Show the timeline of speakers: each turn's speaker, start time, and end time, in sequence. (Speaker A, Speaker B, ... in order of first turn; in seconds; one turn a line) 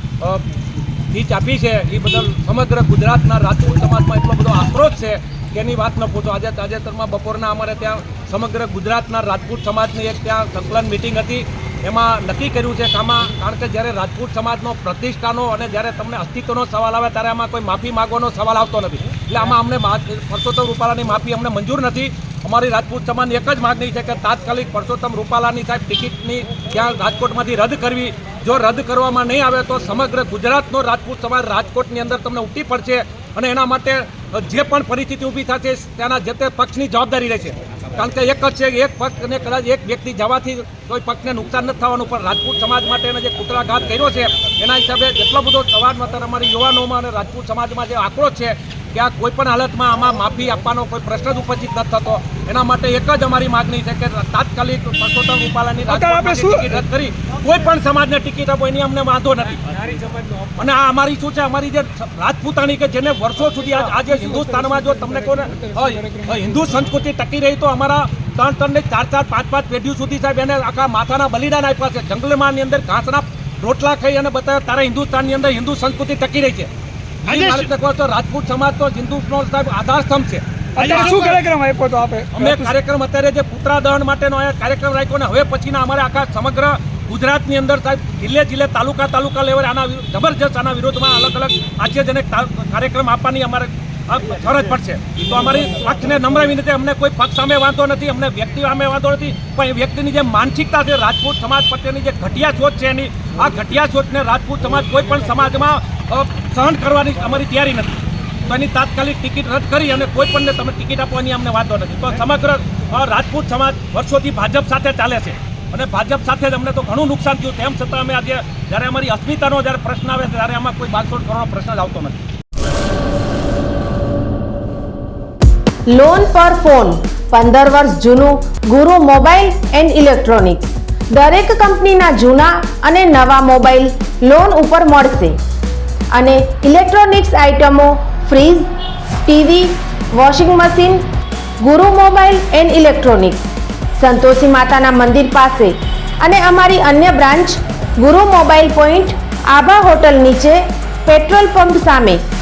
Speaker A: 1.1-59.7
Speaker B: 55.9-56.8
Speaker B: 59.9-60.3
Speaker A: 60.6-76.7
Speaker B: 63.9-66.4
Speaker A: 77.2-81.4
Speaker B: 80.8-82.7
Speaker A: 82.3-122.2
Speaker C: 125.9-135.4
Speaker C: 136.1-138.7
Speaker C: 139.2-141.0
Speaker C: 141.6-143.4
Speaker C: 144.0-152.2